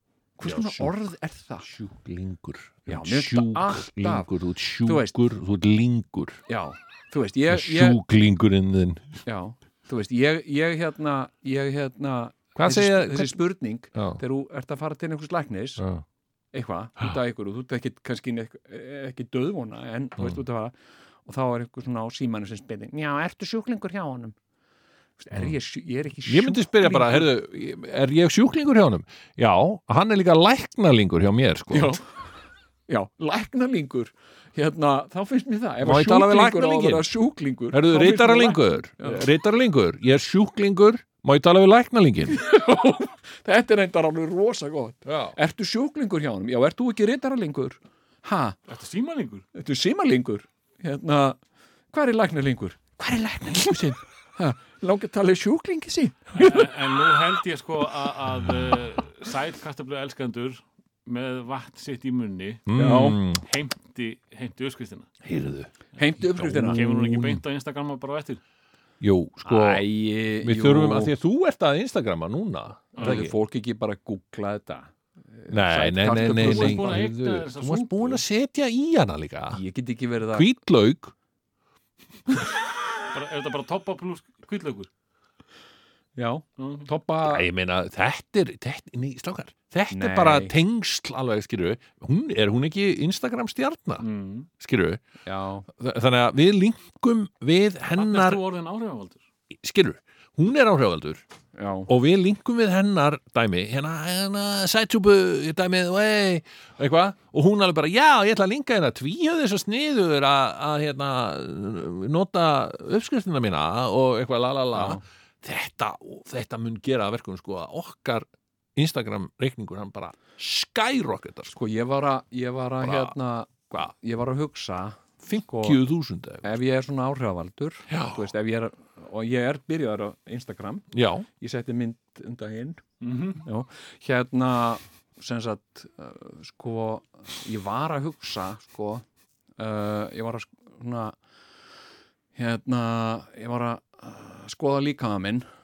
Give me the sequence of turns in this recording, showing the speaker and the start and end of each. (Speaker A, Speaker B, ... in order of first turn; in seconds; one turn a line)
Speaker A: 0.4-1.7
Speaker B: 0.4-0.9
Speaker B: 1.6-6.4
Speaker A: 2.9-5.1
Speaker A: 6.5-8.0
Speaker B: 7.5-9.2
Speaker A: 9.2-15.8
Speaker B: 12.5-13.4
Speaker B: 13.9-14.2
Speaker B: 15.8-16.0
Speaker A: 16.5-24.4
Speaker A: 25.2-27.3
Speaker B: 26.2-32.0
Speaker A: 31.7-32.1
Speaker A: 32.9-39.2
Speaker B: 35.8-37.1
Speaker B: 37.7-42.4
Speaker A: 42.3-48.6
Speaker B: 45.1-45.4
Speaker C: 48.7-49.4
Speaker A: 49.5-51.4
Speaker A: 51.9-56.8
Speaker C: 56.4-65.1
Speaker B: 62.6-63.4
Speaker A: 62.7-63.2
Speaker B: 65.2-65.7
Speaker A: 66.0-66.8
Speaker B: 66.3-67.4
Speaker C: 66.5-68.4
Speaker B: 69.0-69.8
Speaker A: 69.5-71.1
Speaker B: 70.4-73.3
Speaker C: 73.0-73.2
Speaker A: 73.0-77.0
Speaker B: 75.5-79.6
Speaker C: 76.3-78.2
Speaker A: 79.5-80.5
Speaker B: 80.3-81.1
Speaker C: 83.1-84.9
Speaker A: 86.2-87.5
Speaker C: 86.6-86.9
Speaker B: 87.2-94.1
Speaker A: 89.9-90.5
Speaker C: 94.0-94.5
Speaker B: 94.6-95.0
Speaker A: 95.2-95.7
Speaker B: 95.7-98.4
Speaker C: 98.0-99.2
Speaker B: 99.5-101.2
Speaker A: 101.5-101.9
Speaker B: 101.9-121.5
Speaker A: 114.7-115.0
Speaker A: 121.5-125.8
Speaker B: 122.8-123.1
Speaker B: 125.2-126.5
Speaker A: 126.4-139.0
Speaker B: 127.9-128.3
Speaker B: 130.9-131.3
Speaker C: 133.0-133.4
Speaker A: 139.6-141.2
Speaker A: 142.3-145.4